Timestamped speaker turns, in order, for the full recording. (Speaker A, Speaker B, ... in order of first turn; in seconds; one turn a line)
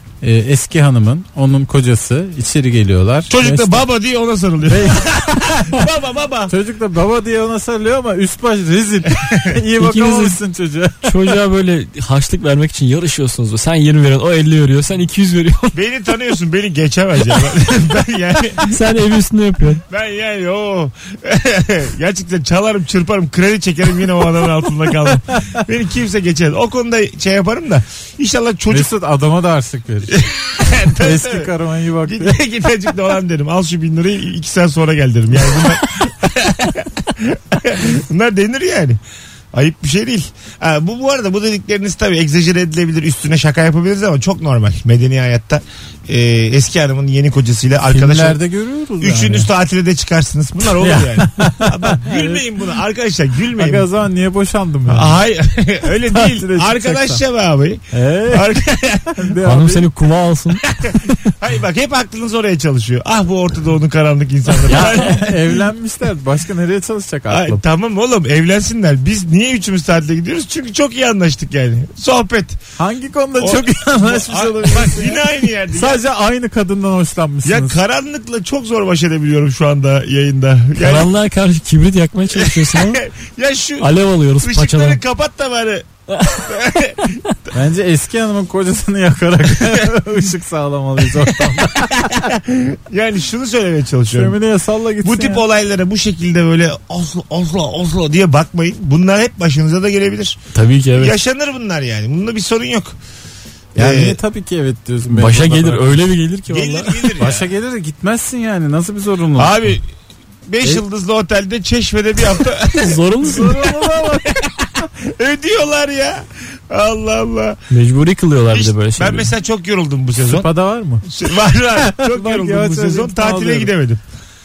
Speaker A: 0.2-3.9
Speaker B: 3.3-6.5
Speaker A: 4.7-5.3
Speaker A: 6.5-11.4
Speaker B: 9.1-9.5
Speaker C: 9.8-10.4
Speaker C: 11.0-15.8
Speaker B: 15.7-18.8
Speaker C: 18.7-19.8
Speaker B: 19.9-28.9
Speaker A: 28.7-32.4
Speaker B: 30.1-31.5
Speaker B: 32.0-39.0
Speaker B: 39.5-48.4
Speaker A: 47.8-49.5
Speaker B: 49.0-53.9
Speaker A: 50.7-52.4
Speaker A: 53.6-55.2
Speaker B: 54.9-59.3
Speaker A: 55.9-57.2
Speaker A: 57.9-58.6
Speaker A: 59.1-59.9
Speaker C: 59.4-61.2
Speaker B: 60.6-65.4
Speaker A: 64.6-67.6
Speaker B: 67.3-72.6
Speaker A: 72.8-77.8
Speaker B: 73.4-76.0
Speaker B: 77.4-81.1
Speaker C: 80.8-83.0
Speaker B: 82.3-87.2
Speaker C: 83.8-85.0
Speaker C: 86.1-86.5
Speaker A: 87.5-92.2
Speaker B: 89.6-89.9
Speaker B: 91.2-94.4
Speaker A: 94.1-95.4
Speaker B: 95.0-100.4
Speaker C: 100.5-101.2
Speaker B: 101.0-103.0
Speaker B: 103.8-104.2
Speaker A: 103.8-106.1
Speaker C: 105.1-107.1
Speaker B: 106.5-107.5
Speaker A: 107.2-109.7
Speaker B: 109.4-109.9
Speaker B: 110.5-117.6
Speaker C: 112.7-113.5
Speaker A: 113.2-114.4
Speaker C: 117.7-119.3
Speaker B: 118.5-120.5
Speaker A: 120.2-121.1
Speaker B: 121.0-124.0
Speaker A: 121.8-123.7